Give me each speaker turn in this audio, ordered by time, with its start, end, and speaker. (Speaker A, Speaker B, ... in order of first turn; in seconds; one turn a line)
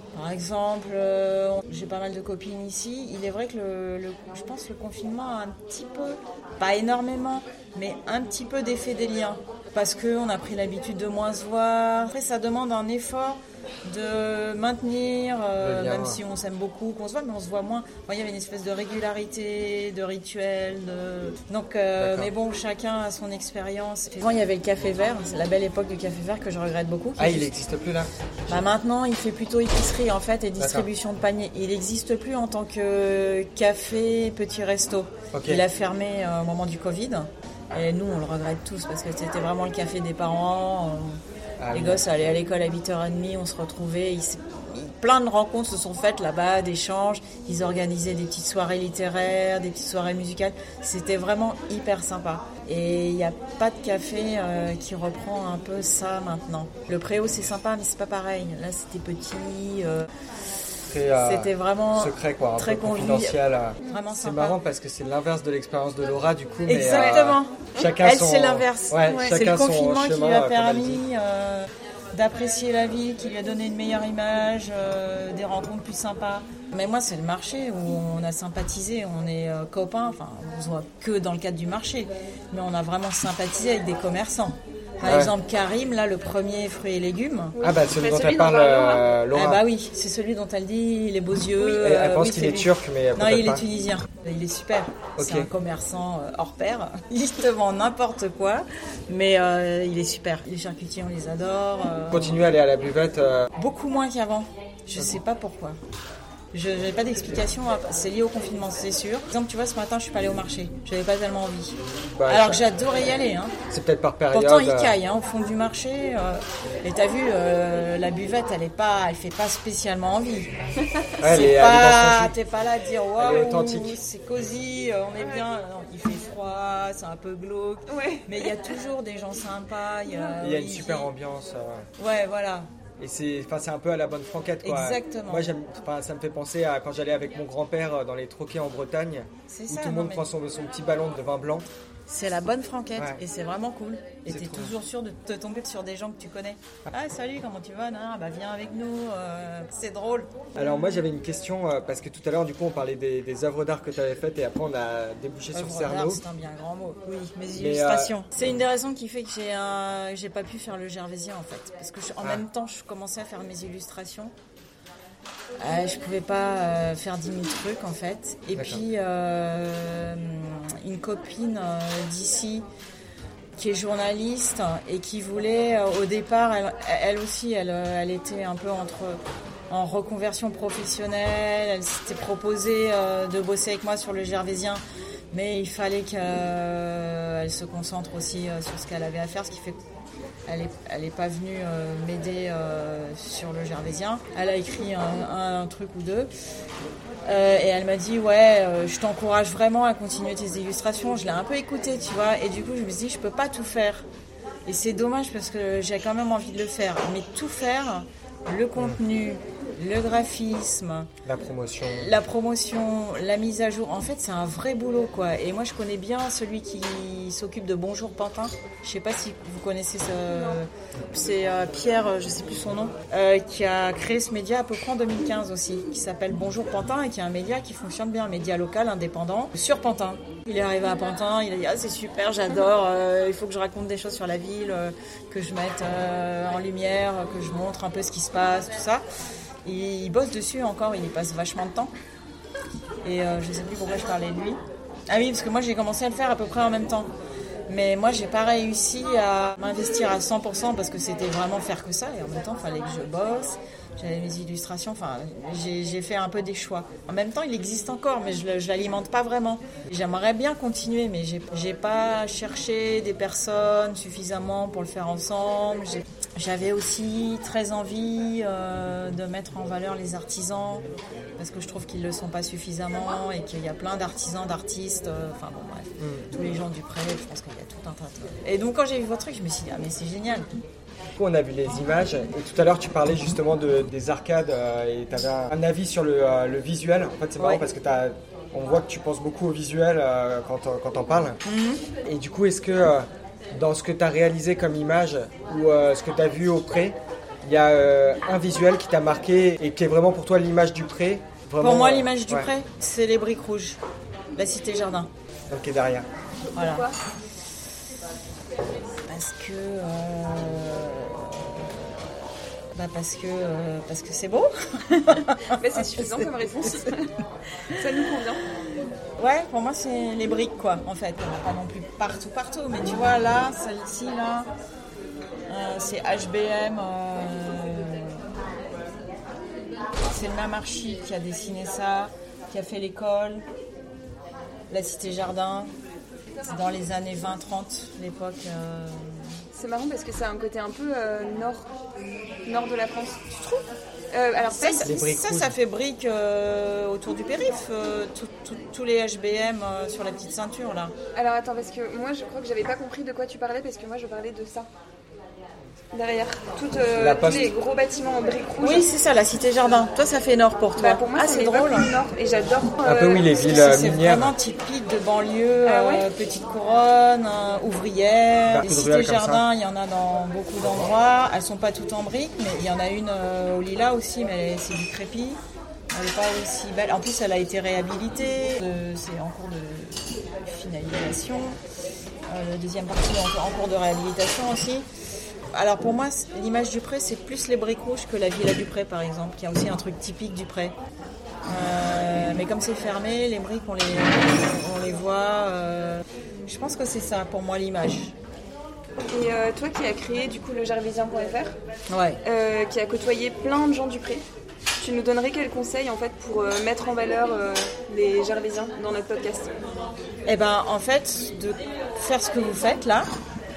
Speaker A: 0.1-27.5
Speaker B: 15.6-16.2
Speaker B: 22.0-22.3
Speaker B: 27.2-28.6
Speaker A: 28.5-41.2
Speaker B: 30.6-30.9
Speaker B: 35.3-35.6
Speaker B: 41.6-42.0
Speaker A: 41.7-60.1
Speaker B: 60.9-71.0
Speaker A: 61.1-64.6
Speaker A: 66.7-87.5
Speaker C: 66.9-67.2
Speaker C: 69.1-69.4
Speaker B: 85.0-85.3
Speaker C: 87.5-89.1
Speaker B: 87.6-89.6
Speaker A: 89.3-102.4
Speaker B: 91.6-93.7
Speaker B: 95.2-95.5
Speaker B: 102.1-103.5
Speaker A: 103.6-105.8
Speaker A: 106.5-113.6
Speaker B: 112.2-112.6
Speaker B: 113.7-115.0
Speaker A: 114.3-120.5
Speaker B: 121.2-122.3
Speaker A: 121.2-131.1
Speaker B: 123.2-124.0
Speaker C: 127.9-128.7
Speaker B: 130.4-131.9
Speaker A: 132.0-132.7
Speaker B: 133.0-141.7
Speaker A: 134.6-135.5
Speaker A: 139.5-140.3
Speaker A: 142.1-150.5
Speaker B: 144.3-144.7
Speaker B: 150.6-156.2
Speaker A: 155.5-164.3
Speaker B: 157.6-158.6
Speaker A: 165.6-172.7
Speaker B: 168.6-168.8
Speaker A: 173.6-184.8
Speaker A: 185.3-189.8
Speaker A: 190.5-196.3
Speaker A: 197.2-204.1
Speaker A: 204.7-211.1
Speaker B: 211.2-212.1
Speaker A: 211.9-239.1
Speaker C: 220.3-220.6
Speaker A: 239.7-241.9
Speaker A: 243.0-247.1
Speaker A: 247.7-270.9
Speaker A: 271.4-280.5
Speaker B: 276.0-276.2
Speaker B: 281.2-291.4
Speaker A: 287.4-287.6
Speaker A: 291.4-291.8
Speaker B: 292.0-302.5
Speaker A: 301.6-303.8
Speaker A: 304.4-305.1
Speaker B: 305.5-306.1
Speaker C: 306.5-307.0
Speaker A: 306.6-306.9
Speaker A: 309.1-316.9
Speaker C: 315.5-317.1
Speaker C: 317.7-318.4
Speaker A: 319.2-324.5
Speaker A: 325.5-328.2
Speaker A: 330.1-333.4
Speaker A: 334.7-335.7
Speaker A: 336.4-339.2
Speaker C: 339.5-341.7
Speaker C: 342.4-344.9
Speaker A: 344.5-350.9
Speaker B: 344.8-345.5
Speaker C: 351.1-354.7
Speaker C: 355.9-358.9
Speaker B: 356.9-357.5
Speaker A: 358.6-361.9
Speaker C: 360.8-363.3
Speaker B: 362.8-364.4
Speaker A: 363.3-375.4
Speaker C: 365.6-366.1
Speaker B: 368.5-369.5
Speaker A: 375.9-381.6
Speaker A: 382.3-384.9
Speaker A: 385.5-390.8
Speaker A: 391.5-398.1
Speaker C: 399.1-401.6
Speaker A: 401.9-402.2
Speaker C: 402.2-404.2
Speaker C: 404.8-409.5
Speaker A: 410.3-413.1